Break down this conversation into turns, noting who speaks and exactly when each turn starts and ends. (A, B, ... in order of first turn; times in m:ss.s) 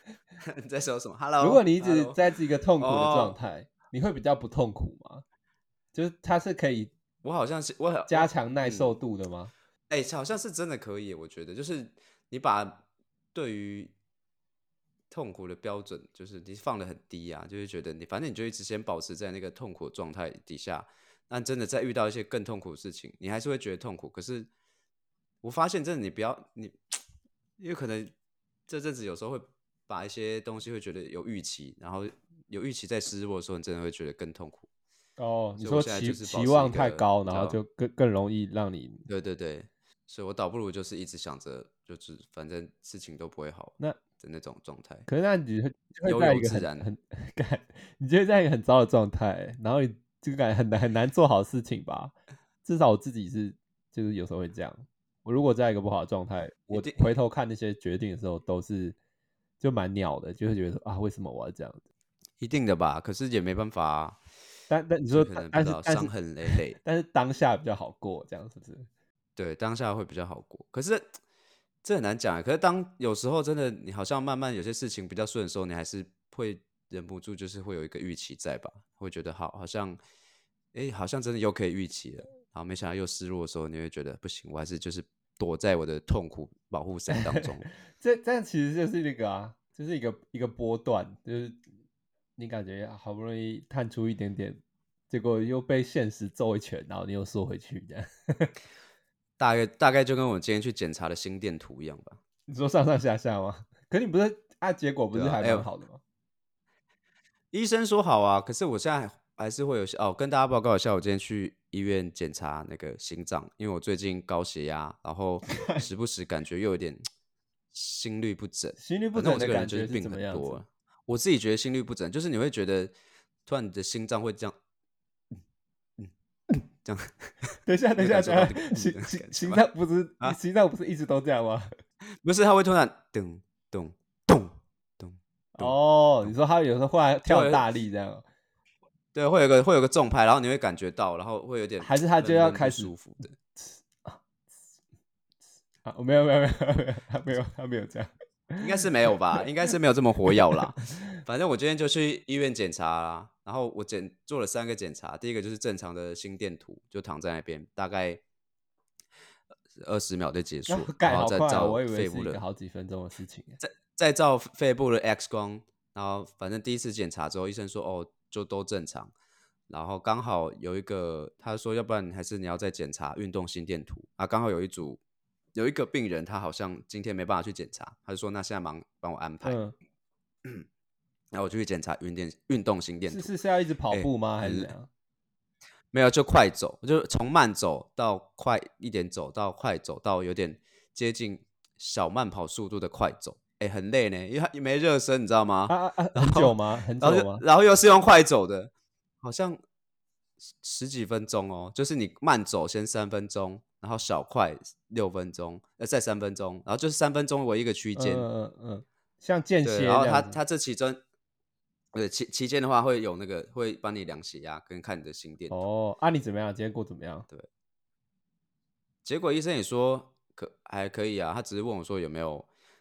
0:00.4-0:02.2 A
0:01.4-0:05.2 B
0:02.8-0:03.4 A
0:05.9-0:06.9 B
0:07.2-0:08.9 A
0:08.1-0:09.5 B
0:09.9-0:13.9 A
0:15.1-0:24.5 A
0:25.4-0:27.0 A
0:27.6-0:28.1 A
0:28.7-0:34.7 A
0:35.2-0:39.0 B
0:35.6-0:37.6 A
0:39.1-0:45.1 A
0:45.1-0:59.0 B
0:46.0-0:46.9 A
0:56.7-0:57.0 A
0:59.6-1:01.8 B
1:02.4-1:04.2 A
1:04.7-1:08.9 B
1:05.1-1:06.8 A
1:09.4-1:11.2 A
1:11.8-1:20.0 A
1:20.7-1:27.7 A
1:27.1-1:31.6 B
1:32.4-1:38.5 B
1:39.4-1:42.2 A
1:42.5-1:46.0 B
1:45.1-1:45.6 A
1:47.5-1:57.0 A
1:55.5-1:55.8 B
1:57.7-2:02.9 A
1:58.8-2:00.6 B
2:03.4-2:04.6 A
2:06.0-2:09.6 A
2:07.6-2:11.7 B
2:12.2-2:16.3 A
2:15.5-2:18.2 B
2:17.3-2:17.7 A
2:19.1-2:23.3 A
2:21.8-2:22.9 B
2:23.5-2:24.2 B
2:25.8-2:28.6 B
2:28.6-2:38.2 A
2:30.3-2:30.6 B
2:39.7-2:42.4 A
2:40.7-2:43.6 B
2:43.6-2:49.1 A
2:49.7-2:55.0 A
2:55.5-2:59.6 A
2:59.4-2:59.7 B
3:01.3-3:03.3 A
3:03.1-3:04.9 B
3:03.9-3:04.7 A
3:05.9-3:19.6 A
3:15.7-3:17.4 B
3:20.4-3:28.3 A
3:28.0-3:30.4 B
3:29.6-3:31.0 A
3:31.9-3:35.6 A
3:35.5-3:37.3 B
3:39.0-3:42.5 A